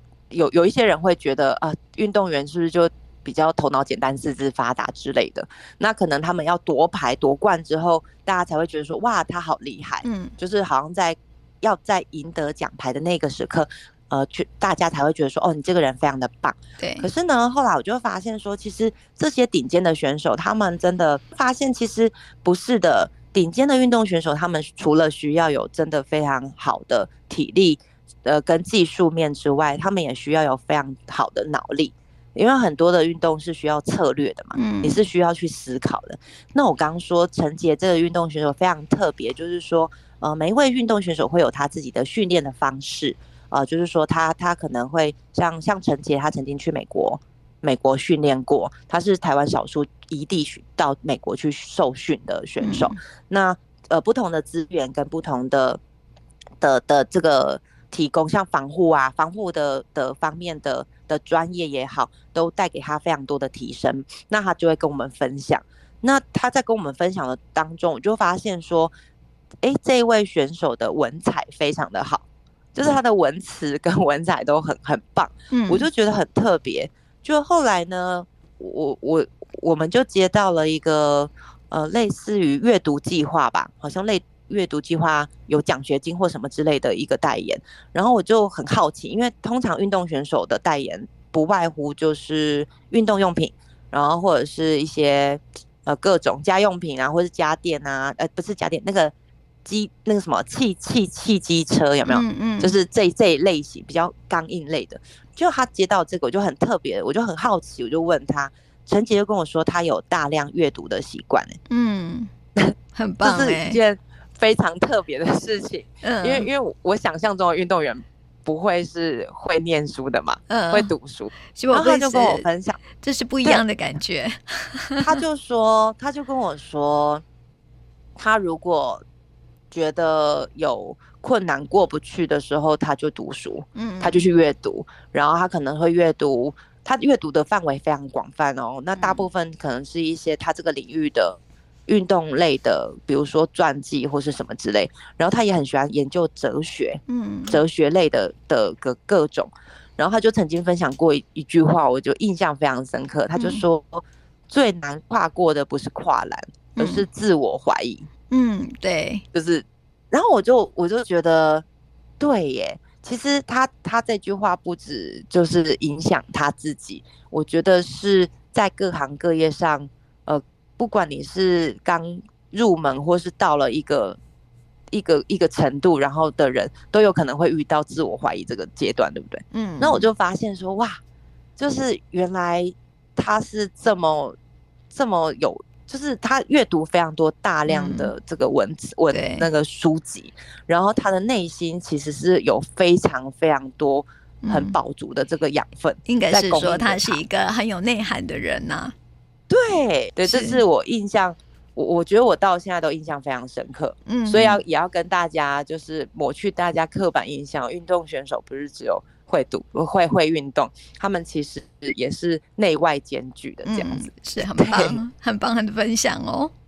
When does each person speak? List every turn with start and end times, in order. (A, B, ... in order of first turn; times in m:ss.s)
0:00.3-0:55.8 A
0:10.0-0:10.3 B
0:16.8-0:17.1 B
0:34.5-0:35.0 B
0:52.6-0:53.0 B
0:56.6-1:08.9 A
1:09.6-1:39.1 A
1:15.5-1:15.9 B
1:39.6-1:51.6 A
1:42.0-1:42.7 B
1:51.7-1:52.3 B
1:52.6-2:02.8 A
1:52.9-1:53.8 B
1:56.0-1:56.5 B
2:00.5-2:00.9 B
2:01.5-2:02.5 B
2:03.0-2:05.2 B
2:05.0-2:07.2 A
2:08.2-2:09.0 A
2:09.7-2:38.1 A
2:13.7-2:14.2 B
2:18.9-2:19.3 B
2:27.1-2:27.6 B
2:33.3-2:33.6 B
2:36.8-2:37.0 B
2:38.3-2:39.2 B
2:39.3-2:41.6 A
2:42.2-2:54.2 A
2:54.9-3:01.0 A
2:59.5-3:00.1 B
3:01.6-3:04.4 A
3:04.9-3:17.2 A
3:07.7-3:08.1 B
3:09.1-3:09.5 B
3:14.4-3:14.8 B
3:16.1-3:18.9 B
3:19.5-3:35.0 A
3:20.2-3:20.6 B
3:24.0-3:24.6 B
3:33.6-3:36.5 B